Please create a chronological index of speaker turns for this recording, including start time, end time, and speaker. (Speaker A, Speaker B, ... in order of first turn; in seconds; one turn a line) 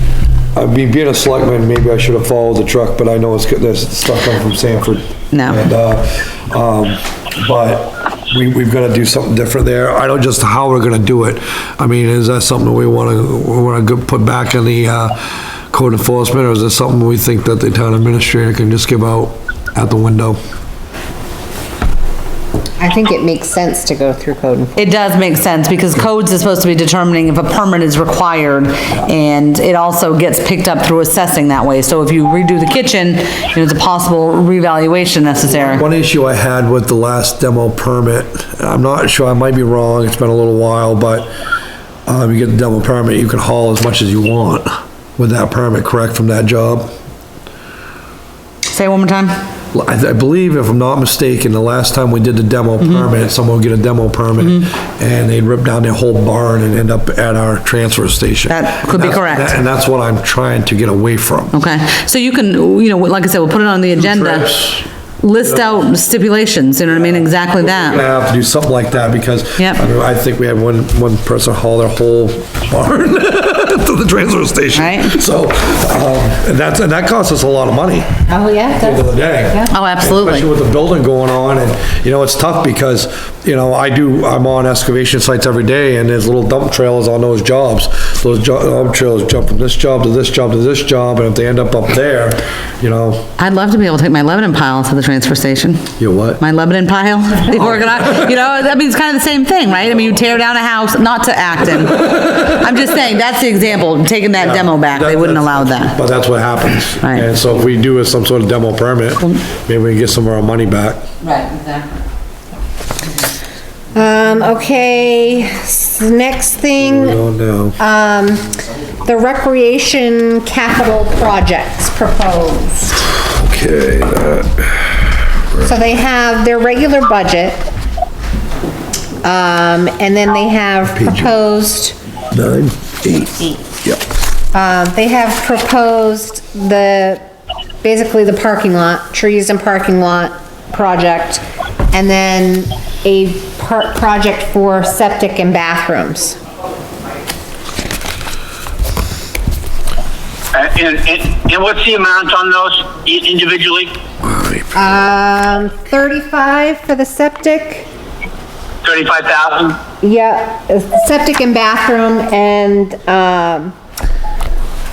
Speaker A: 0.6-20.4
Speaker B: 5.3-5.6
Speaker C: 22.8-24.9
Speaker B: 24.8-35.9
Speaker A: 35.5-41.3
Speaker A: 42.1-46.9
Speaker B: 48.7-49.4
Speaker A: 49.7-61.5
Speaker B: 52.8-53.1
Speaker B: 58.5-59.5
Speaker B: 61.5-64.5
Speaker A: 64.0-64.9
Speaker B: 65.2-68.0
Speaker A: 65.4-65.7
Speaker A: 66.9-78.2
Speaker B: 74.7-75.2
Speaker C: 78.3-79.7
Speaker A: 78.7-93.3
Speaker B: 79.7-80.5
Speaker B: 93.4-95.9
Speaker A: 96.0-96.4
Speaker B: 96.4-106.0
Speaker A: 97.5-98.3
Speaker A: 104.4-111.0
Speaker B: 111.2-112.0
Speaker C: 113.9-117.2
Speaker A: 116.8-117.8
Speaker C: 117.8-118.5
Speaker C: 119.0-123.1
Speaker A: 123.2-125.7
Speaker C: 125.6-127.7
Speaker C: 129.2-132.0
Speaker A: 130.9-131.3
Speaker A: 132.3-134.0
Speaker C: 133.4-133.7
Speaker C: 134.5-137.2
Speaker C: 137.8-146.4
Speaker D: 150.5-153.9
Speaker A: 154.2-154.7
Speaker C: 154.7-157.9
Speaker D: 158.8-159.8
Speaker C: 160.0-163.8